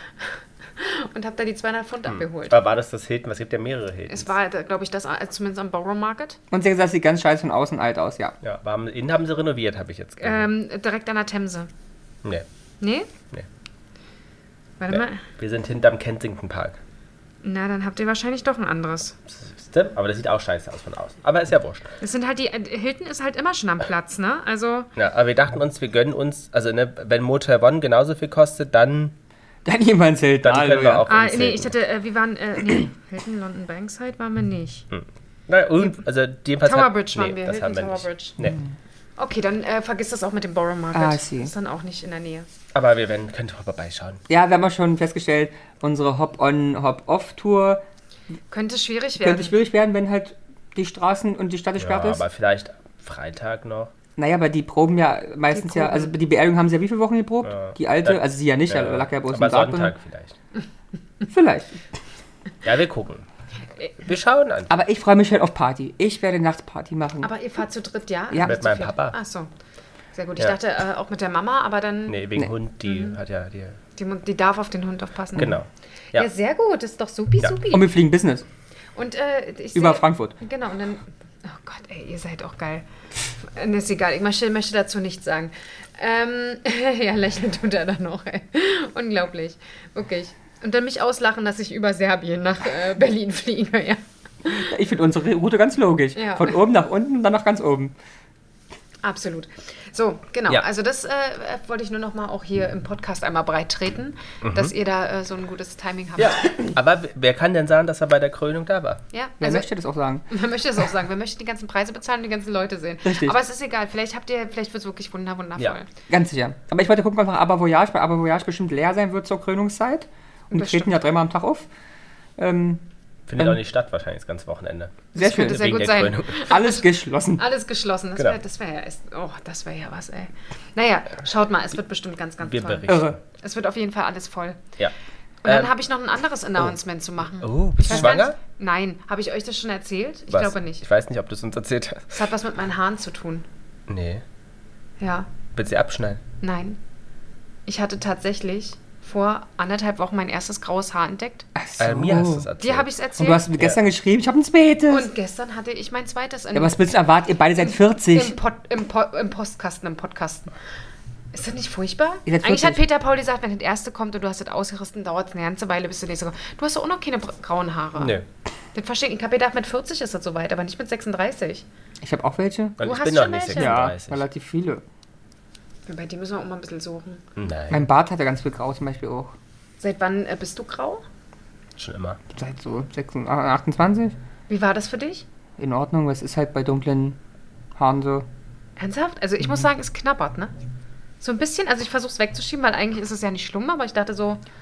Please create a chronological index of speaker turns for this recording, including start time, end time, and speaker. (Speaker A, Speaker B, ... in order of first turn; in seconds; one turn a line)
Speaker A: 0.2-2.6
Speaker B: 2.1-4.3
Speaker A: 4.1-6.4
Speaker C: 6.5-8.3
Speaker B: 8.4-10.5
Speaker A: 10.2-11.7
Speaker A: 12.8-13.1
Speaker A: 14.8-15.2
Speaker B: 14.9-16.8
Speaker A: 17.4-19.2
Speaker B: 19.3-21.9
Speaker A: 22.0-24.9
Speaker B: 25.0-29.1
Speaker C: 29.6-31.1
Speaker B: 30.4-31.7
Speaker A: 31.1-34.9
Speaker B: 34.9-38.6
Speaker A: 36.6-38.4
Speaker A: 39.2-42.5
Speaker C: 40.9-41.5
Speaker B: 42.7-44.2
Speaker C: 44.3-47.8
Speaker A: 48.5-49.5
Speaker C: 49.2-52.2
Speaker B: 51.8-53.9
Speaker C: 54.2-59.9
Speaker A: 55.5-56.1
Speaker B: 57.5-60.3
Speaker C: 61.3-61.8
Speaker B: 62.6-63.2
Speaker B: 64.0-64.7
Speaker C: 64.7-67.3
Speaker A: 67.2-69.5
Speaker C: 68.3-68.6
Speaker B: 68.4-69.2
Speaker A: 70.1-72.2
Speaker B: 72.1-73.8
Speaker A: 72.9-73.2
Speaker A: 74.0-75.6
Speaker B: 75.4-76.3
Speaker A: 76.1-77.9
Speaker C: 77.7-78.5
Speaker A: 79.0-82.8
Speaker C: 79.8-80.3
Speaker A: 83.4-94.7
Speaker C: 94.5-97.9
Speaker A: 96.2-96.6
Speaker A: 99.0-106.5
Speaker B: 104.4-104.7
Speaker B: 106.2-109.0
Speaker A: 109.1-109.7
Speaker C: 109.4-110.3
Speaker A: 110.3-115.9
Speaker C: 113.0-113.4
Speaker C: 116.1-121.7
Speaker A: 120.5-120.9
Speaker C: 122.4-122.8
Speaker B: 123.3-126.5
Speaker A: 125.2-126.8
Speaker C: 125.2-125.7
Speaker C: 126.4-127.4
Speaker A: 127.4-134.6
Speaker B: 132.4-133.2
Speaker C: 132.9-133.2
Speaker A: 135.4-140.8
Speaker B: 135.4-135.7
Speaker B: 137.4-138.4
Speaker C: 137.9-138.2
Speaker B: 140.3-142.1
Speaker A: 142.1-143.5
Speaker B: 143.9-144.2
Speaker A: 145.0-145.3
Speaker B: 145.6-146.2
Speaker A: 146.4-146.8
Speaker A: 147.7-151.5
Speaker C: 151.6-152.5
Speaker B: 151.8-153.0
Speaker A: 152.6-153.4
Speaker C: 153.2-155.1
Speaker A: 154.9-156.8
Speaker C: 156.5-158.4
Speaker A: 157.6-160.5
Speaker A: 161.3-168.2
Speaker C: 162.3-162.8
Speaker B: 168.0-168.2
Speaker A: 168.8-171.7
Speaker C: 172.0-172.8
Speaker B: 172.8-174.2
Speaker A: 172.8-173.8
Speaker C: 173.5-174.8
Speaker A: 175.9-177.2
Speaker B: 177.4-177.8
Speaker C: 177.7-179.3
Speaker A: 179.8-181.0
Speaker B: 181.8-182.2
Speaker C: 182.3-184.2
Speaker A: 184.5-185.2
Speaker C: 185.6-187.2
Speaker C: 187.8-188.3
Speaker A: 188.8-190.5
Speaker A: 191.2-194.4